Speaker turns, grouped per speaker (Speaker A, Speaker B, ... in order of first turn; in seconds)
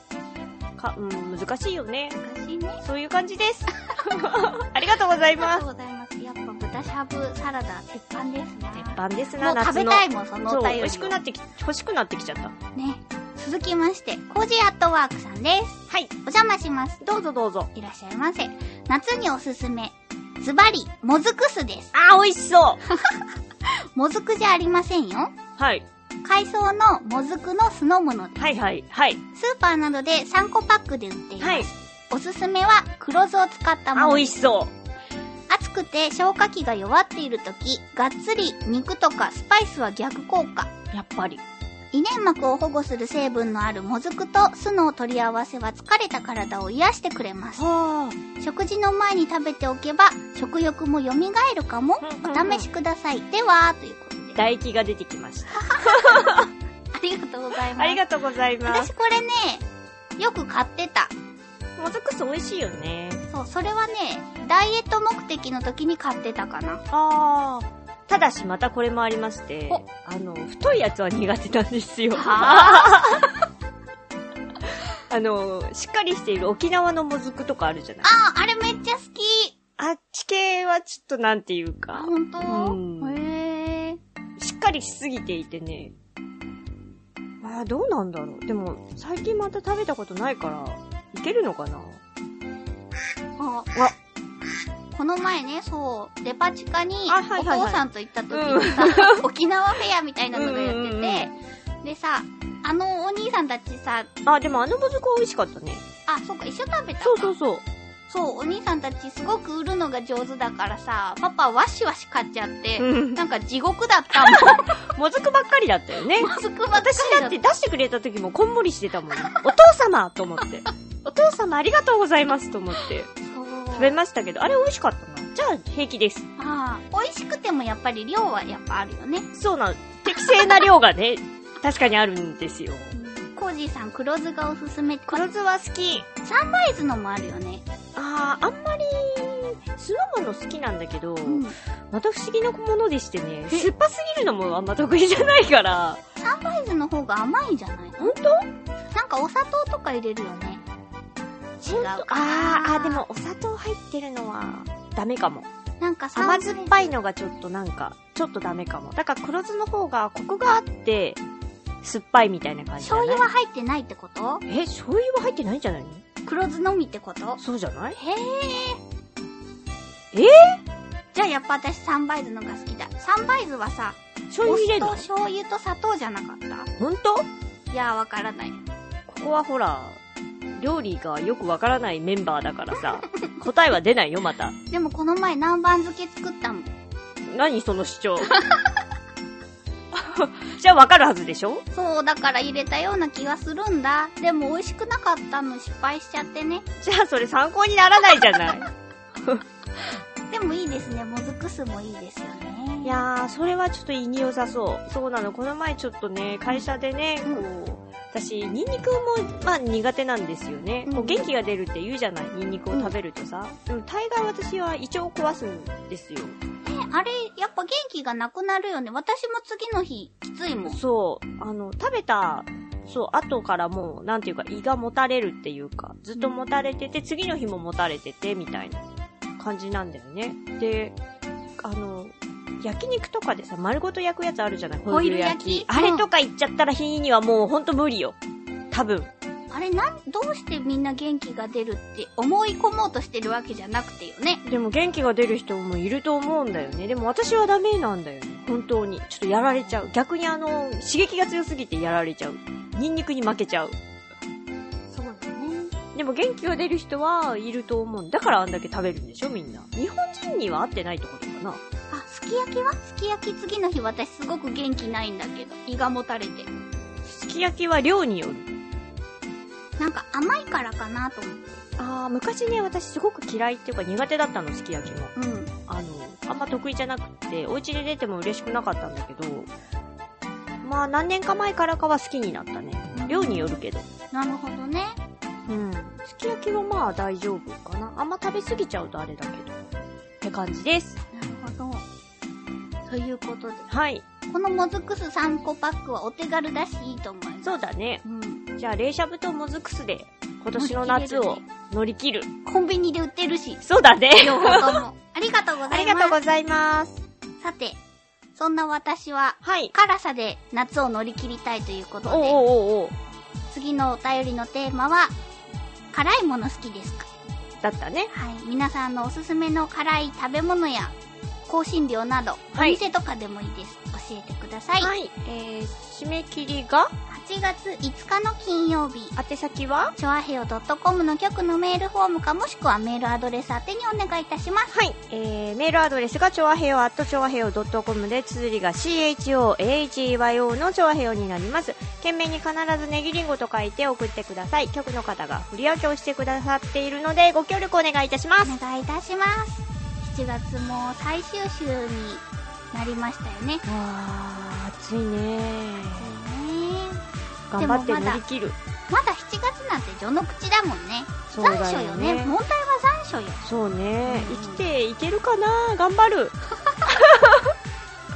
Speaker A: 0.8-2.2, 2.8-5.6, 8.7-12.6, 17.0-17.7, 21.9-22.8, 25.6-25.9, 28.4-29.2, 31.4-31.7, 34.0-34.7, 40.9-41.4, 47.6-48.2, 52.0-52.7, 54.4-56.5, 57.8-58.9, 61.8-63.2, 66.9-73.3, 75.1-78.1, 79.8-83.2, 84.4-85.9, 87.4-92.0, 97.1-99.2, 100.3-101.3, 104.3-105.8, 107.0-107.6, 112.8-113.2, 114.4-123.1, 123.7-126.3, 129.3-132.9, 135.1-136.1, 138.0-146.0, 148.0-148.5, 151.7-155.5, 156.2-161.2, 161.8-163.3, 164.5-166.0, 167.4-168.0, 170.1-170.6, 174.3-175.1, 176.8-177.3, 179.1-180.0, 180.6-184.6, 187.3-188.3, 189.9-191.6, 196.8-198.7, 202.8-216.3, 220.7-228.9, 229.4-231.0, 231.6-238.2, 238.7-239.1, 244.4-253.8, 255.9-261.6, 267.0-268.5, 271.8-275.1, 275.7-279.5, 280.6-283.9, 285.5-289.7, 290.2-291.0, 293.7-294.0, 297.4-298.0, 298.6-302.3, 303.6-304.8, 305.7-307.0, 309.4-309.7, 312.1-313.0, 317.6-318.1, 322.6-322.8, 324.8-326.9, 329.2-329.9, 334.7-348.6, 353.6-356.2, 357.5-358.6, 361.3-362.4, 363.4-367.5
Speaker B: 2.2-2.8, 3.9-4.3, 5.4-11.2, 12.8-17.0, 17.7-21.9, 22.9-23.2, 23.9-25.4, 26.2-28.4, 29.3-34.4, 35.5-40.7, 41.9-47.6, 48.4-54.4, 55.5-56.4, 56.9-58.0, 58.7-59.7, 60.2-61.1, 63.3-66.8, 72.1-73.3, 78.0-79.5, 81.9-84.0, 93.4-93.8, 94.9-104.1, 106.1-107.3, 108.1-114.8, 116.2-117.4, 119.2-119.4, 123.2-124.0, 126.4-129.3, 130.1-130.7, 132.9-135.3, 136.2-137.6, 141.2-141.6, 146.2-148.2, 148.9-150.6, 151.6-153.1, 155.8-156.9, 162.8-164.4, 166.2-167.4, 167.9-168.8, 171.1-176.7, 177.7-178.6, 184.7-186.7, 188.3-188.7, 191.7-196.7, 200.3-203.1, 210.9-211.3, 216.6-220.8, 234.9-236.1, 239.5-244.4, 254.9-255.7, 261.9-266.5, 269.8-271.6, 275.1-275.5, 282.9-283.6, 284.1-285.0, 291.1-291.9, 292.9-293.7, 294.3-298.4, 300.6-301.4, 302.4-303.6, 304.2-306.2, 307.4-307.8, 308.4-312.4, 313.5-315.1, 315.9-317.1, 318.1-320.9, 321.5-324.9, 327.1-329.2, 330.0-334.8, 348.4-353.6, 356.0-357.0, 357.6-358.2, 358.9-363.4, 364.1-364.6